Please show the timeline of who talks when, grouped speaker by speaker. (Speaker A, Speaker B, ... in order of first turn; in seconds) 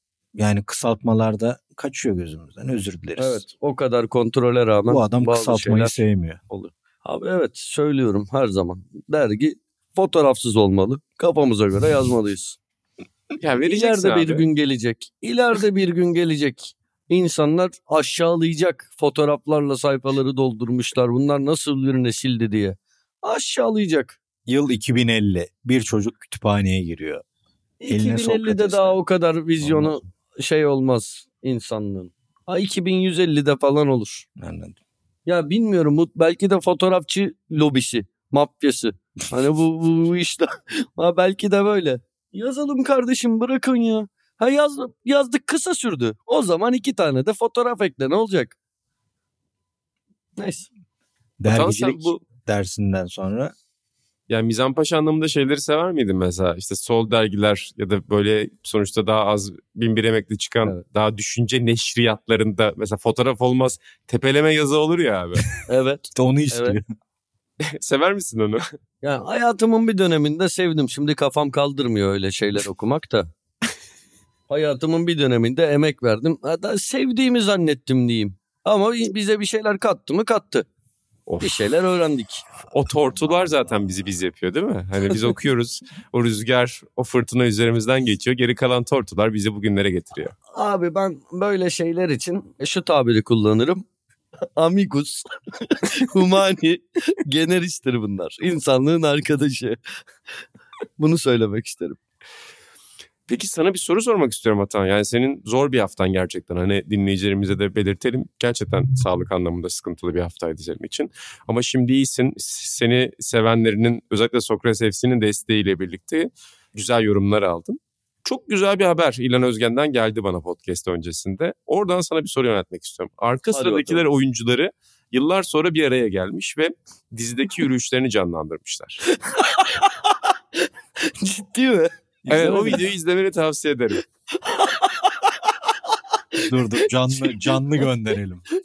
Speaker A: 0.3-3.4, 4.9-6.4, 24.5-27.2, 27.9-29.0, 29.6-30.0, 34.4-34.8, 51.4-53.5, 66.1-66.8, 83.4-83.7, 132.2-132.8, 136.4-138.4
Speaker B: 3.2-12.6, 13.6-24.2, 27.8-34.2, 35.2-48.6, 50.4-50.7, 65.7-66.8, 69.0-73.3, 74.5-80.7, 81.4-82.4, 90.5-93.8, 94.5-99.8, 101.0-102.0, 123.5-124.0, 129.2-130.1, 131.0-132.8, 134.4-135.3, 137.1-137.5
Speaker C: 13.4-14.4, 51.5-52.2, 54.3-65.5, 67.7-68.6, 81.3-81.6, 82.7-90.3, 103.3-129.1, 132.3-134.0